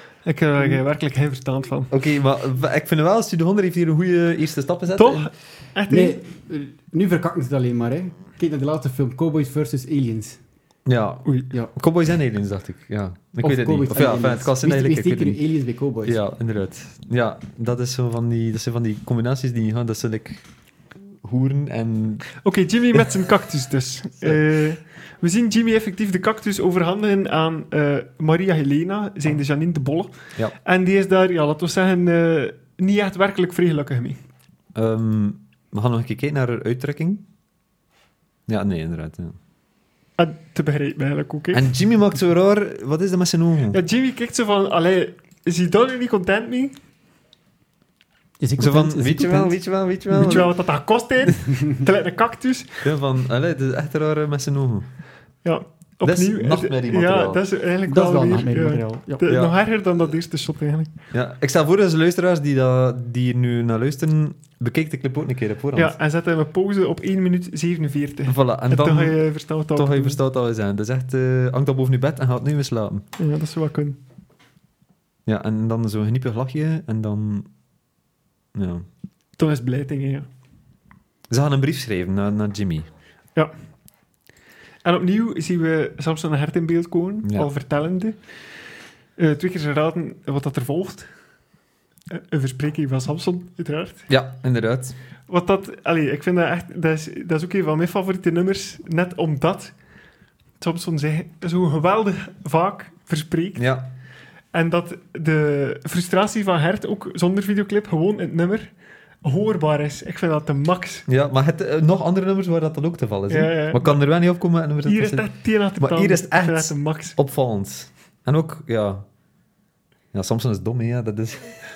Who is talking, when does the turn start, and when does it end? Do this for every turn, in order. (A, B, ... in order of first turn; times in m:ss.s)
0:00.2-0:01.9 A
0:01.9-0:05.3 B
0:04.9-0:06.2 A
0:05.9-0:10.4 C
0:10.8-0:15.4 B
0:13.4-0:16.2 C
0:16.0-0:20.4 B
0:21.2-0:22.4 B
0:22.4-0:34.2 A
0:34.7-0:37.2 B
0:38.5-0:39.3 B
0:40.2-0:41.7 A
0:41.5-0:43.8 B
0:43.7-0:46.7 A
0:48.4-0:49.6 C
0:48.6-0:50.6 B
0:50.1-0:50.4 C
0:50.2-0:52.8 A
0:52.8-0:54.9 B
0:55.4-1:00.9 A
0:56.0-0:57.4 B
0:57.8-0:59.2 C
0:59.3-0:59.6 B
1:01.1-1:05.9 B
1:05.7-1:10.2 A
1:08.3-1:13.1 B
1:13.2-1:14.0 A
1:15.2-1:17.5 B
1:18.5-1:18.8 B
1:19.4-1:20.3 A
1:21.3-1:22.9 B
1:24.8-1:28.2 A
1:29.2-1:31.1 A
1:32.1-1:34.1 A
1:34.1-1:35.0 B
1:35.3-1:39.7 A
1:40.6-1:43.6 A
1:43.6-1:43.9 B
1:44.5-1:51.0 A
1:51.1-1:59.0 B
1:53.3-1:54.1 A
1:54.8-1:57.2 A
2:00.1-2:01.6 B